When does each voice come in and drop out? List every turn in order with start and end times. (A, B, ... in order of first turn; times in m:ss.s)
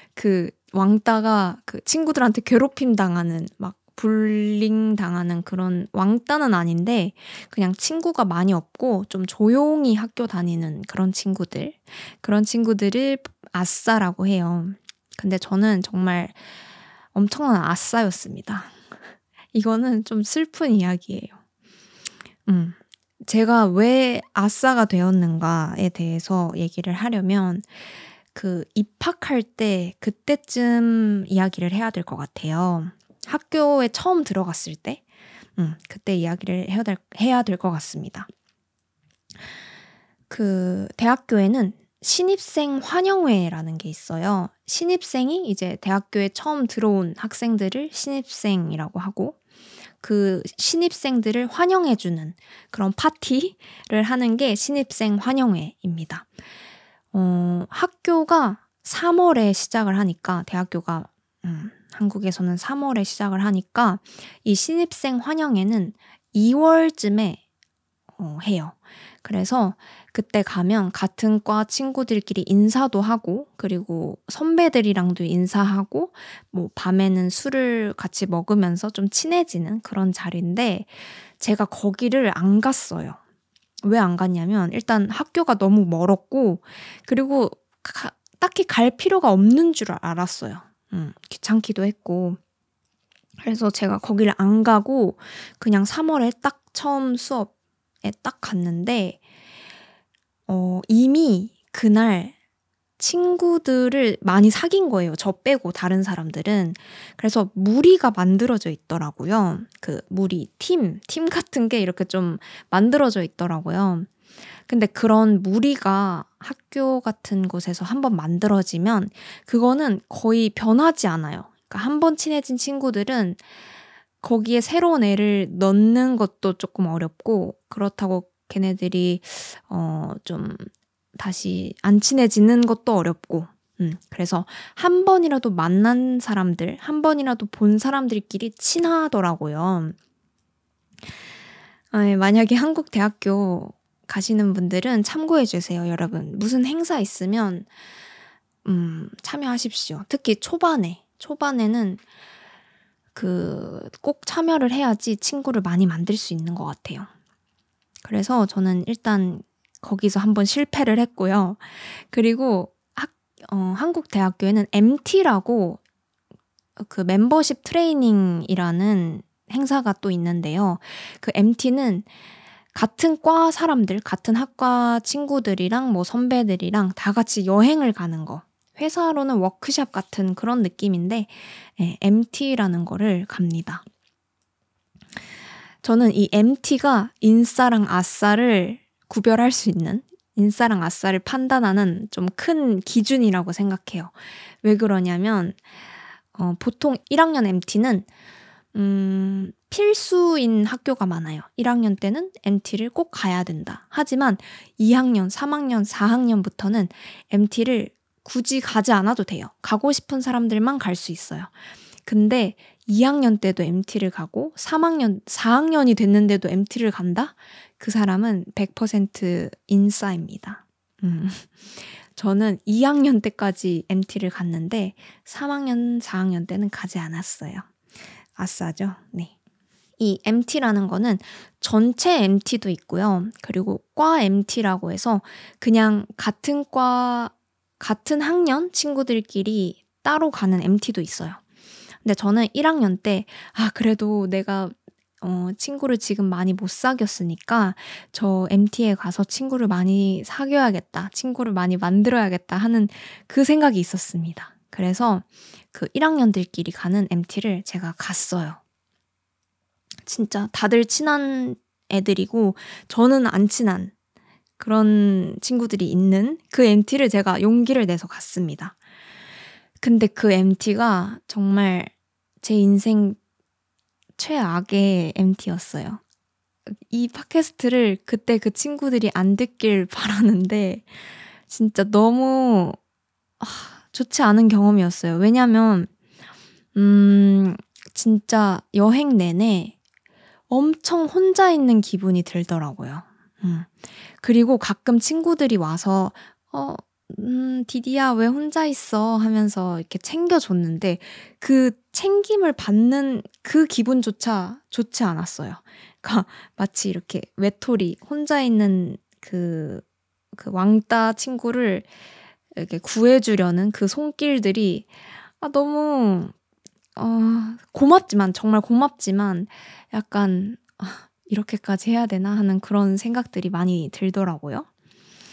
0:00.2-0:16.4 A
0:17.1-0:18.7 A
0:19.5-0:21.3 A
0:22.5-0:27.7 A
0:28.3-0:35.0 A
0:35.6-0:38.3 A
0:40.3-0:49.4 A
0:50.0-0:56.3 A
0:57.1-1:07.4 A
1:08.2-1:23.2 A
1:23.8-1:32.4 A
1:33.4-1:37.5 A
1:38.0-1:39.2 A
1:40.5-1:42.3 A
1:43.0-1:54.1 A
1:54.7-2:03.4 A
2:04.2-2:20.0 A
2:21.9-2:27.7 A
2:28.6-2:32.0 A
2:33.2-2:37.1 A
2:38.0-2:45.8 A
2:46.8-2:52.1 A
2:52.7-3:03.8 A
3:05.8-3:15.6 A
3:16.4-3:18.1 A
3:18.7-3:31.5 A
3:32.0-3:47.7 A
3:48.4-3:49.3 A
3:50.0-4:01.4 A
4:02.0-4:18.6 A
4:20.1-4:23.9 A
4:24.6-4:28.8 A
4:29.8-4:33.2 A
4:34.2-4:36.0 A
4:36.7-4:40.9 A
4:41.5-4:42.8 A
4:43.4-4:45.9 A
4:46.8-4:49.8 A
4:50.5-4:53.7 A
4:54.2-5:11.9 A
5:12.6-5:16.3 A
5:17.0-5:24.7 A